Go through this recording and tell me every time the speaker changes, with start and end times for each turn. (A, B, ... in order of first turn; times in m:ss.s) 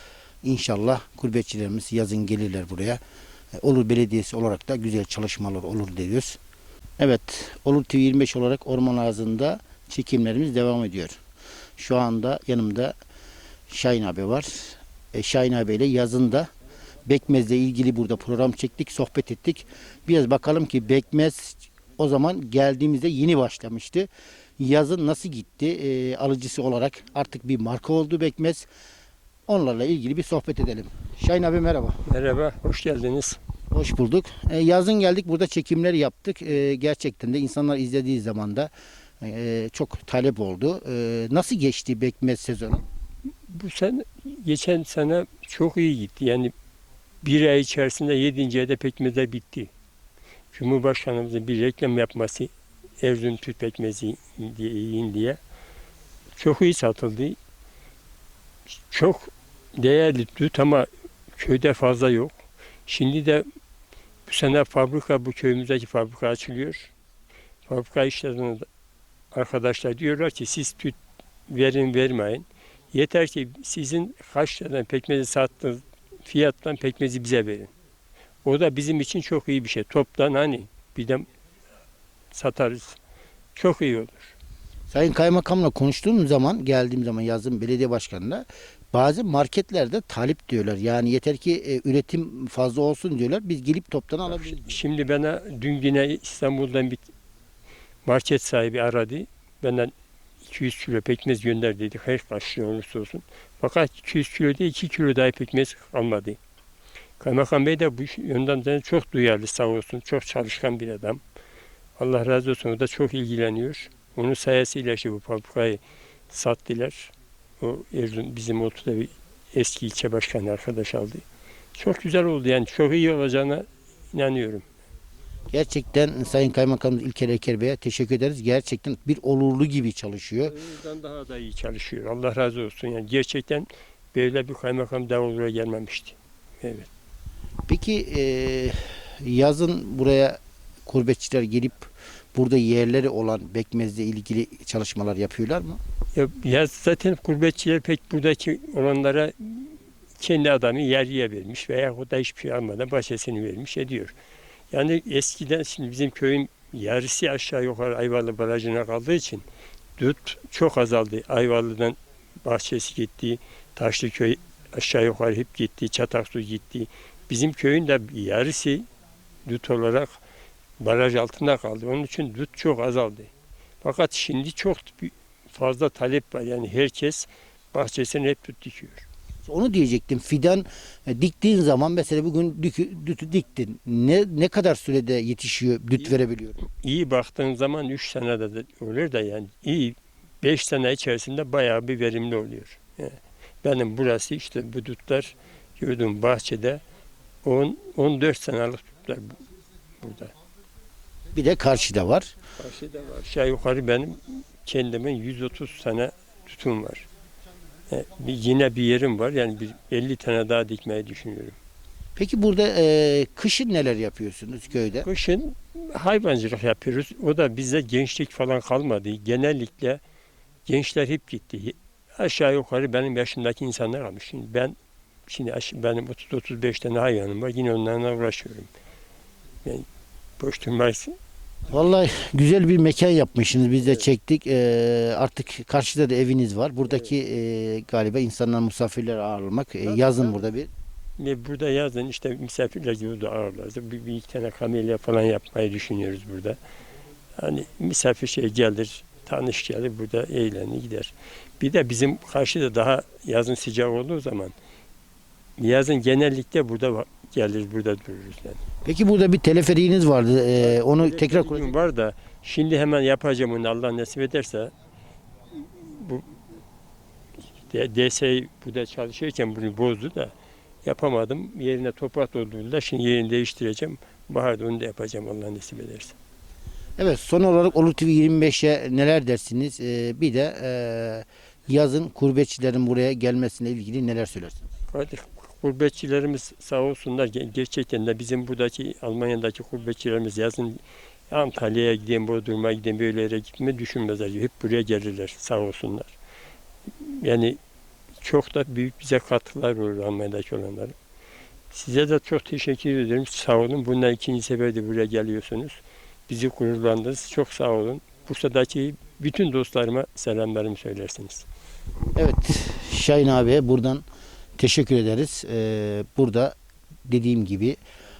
0:00.4-0:03.0 A
0:03.6-0:06.4 A
0:07.0-0:11.2 A
0:11.8-0:12.9 A
0:13.7-0:16.5 A
0:17.0-0:28.7 A
0:29.5-0:32.0 A
0:32.1-0:33.4 B
0:33.7-0:42.8 A
0:43.5-0:46.5 B
0:47.2-0:49.7 B
0:50.5-0:55.4 B
0:56.4-0:57.4 B
0:58.9-1:02.4 B
1:02.9-1:03.4 B
1:04.3-1:06.9 B
1:07.7-1:08.7 B
1:09.3-1:11.0 B
1:11.5-1:17.7 B
1:18.4-1:21.3 B
1:22.3-1:23.0 B
1:23.6-1:24.3 B
1:24.9-1:34.7 A
1:34.3-1:37.1 B
1:38.0-1:39.9 B
1:40.4-1:46.4 B
1:47.2-1:51.2 B
1:52.0-2:01.2 B
2:01.8-2:04.7 B
2:05.5-2:10.6 A
2:10.5-2:16.9 B
2:17.7-2:25.8 A
2:26.2-2:34.1 B
2:34.7-2:39.4 B
2:40.0-2:48.9 B
2:49.5-2:50.2 B
2:50.8-2:53.3 B
2:53.8-2:59.0 B
2:59.5-3:06.6 A
3:06.8-3:16.8 B
3:17.4-3:19.4 B
3:20.0-3:20.3 B
3:21.3-3:22.3 A
3:22.6-3:27.1 B
3:27.9-3:31.6 B
3:32.2-3:35.1 A
3:35.0-3:40.0 B
3:40.7-3:44.8 B
3:45.3-3:48.7 B
3:50.4-3:51.2 B
3:51.7-4:00.7 A
4:01.2-4:06.6 B
4:07.4-4:14.5 B
4:15.6-4:18.6 B
4:18.8-4:21.7 A
4:20.6-4:24.7 B
4:25.8-4:26.3 B
4:27.7-4:30.3 B
4:30.8-4:36.2 B
4:37.0-4:44.6 A
4:44.9-4:56.1 B
4:57.0-4:57.6 B
4:58.2-5:01.0 B
5:01.7-5:11.5 B
5:12.2-5:14.0 A
5:14.6-5:16.6 A
5:17.1-5:17.8 A